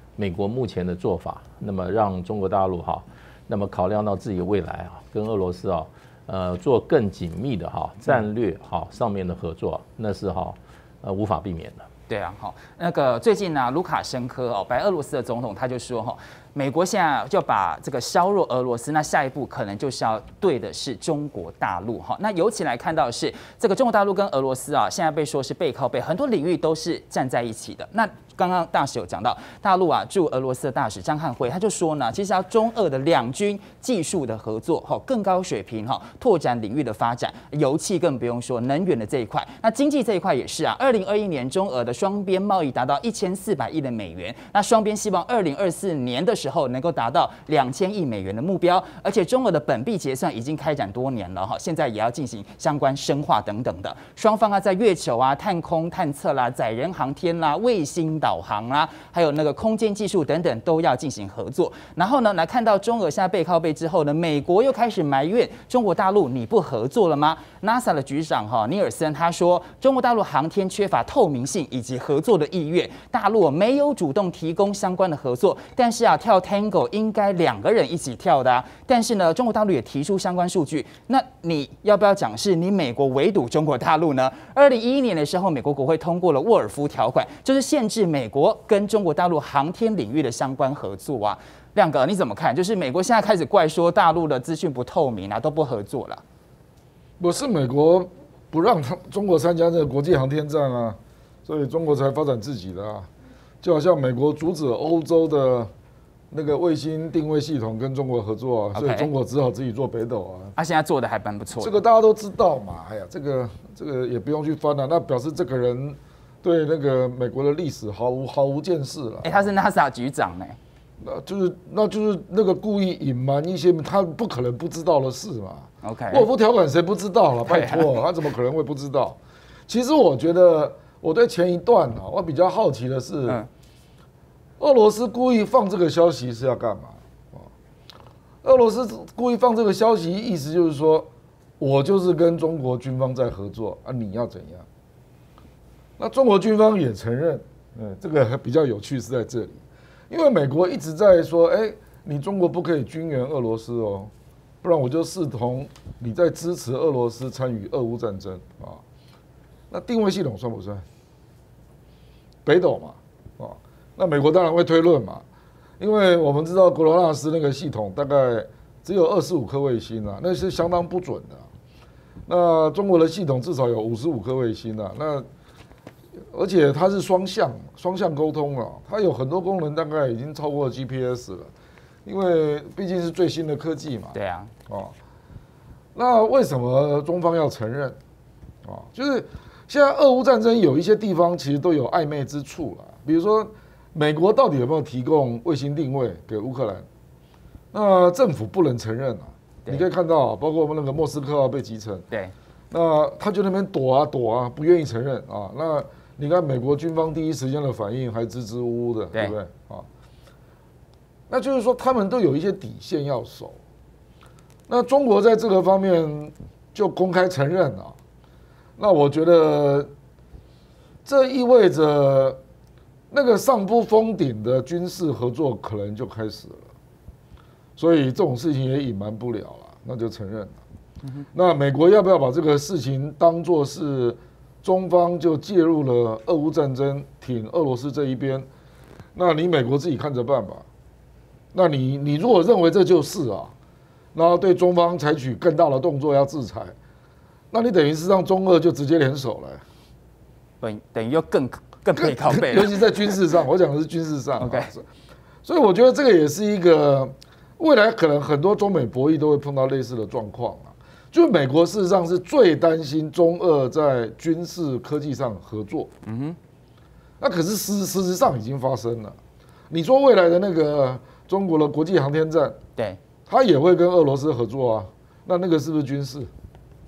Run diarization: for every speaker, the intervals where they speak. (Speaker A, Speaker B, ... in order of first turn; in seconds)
Speaker A: 0.2-11.8
Speaker B: 12.1-96.2, 108.7-109.1, 110.5-111.8, 119.2-120.6, 125.8-126.3, 127.5-127.9, 184.1-184.5, 250.6-253.1, 254.4-254.7, 266.0-266.4
Speaker C: 97.2-103.1, 103.6-105.7, 106.3-110.5, 111.6-119.5, 121.0-133.4, 134.6-137.5, 138.4-141.1, 141.6-144.6, 146.0-154.1, 154.6-158.8, 159.7-160.8, 162.4-165.2, 165.8-171.5, 172.3-175.2, 176.3-181.5, 182.0-184.2, 184.7-184.9, 185.9-188.0, 188.6-196.8, 197.7-202.0, 202.7-209.8, 211.3-213.6, 214.7-217.9, 218.8-219.9, 221.1-222.4, 223.1-226.7, 227.8-230.6, 231.3-238.5, 239.1-240.6, 241.5-243.5, 244.1-246.7, 247.5-249.6, 251.9-254.8, 255.4-265.9, 267.2-269.2, 269.7-272.6, 273.3-276.3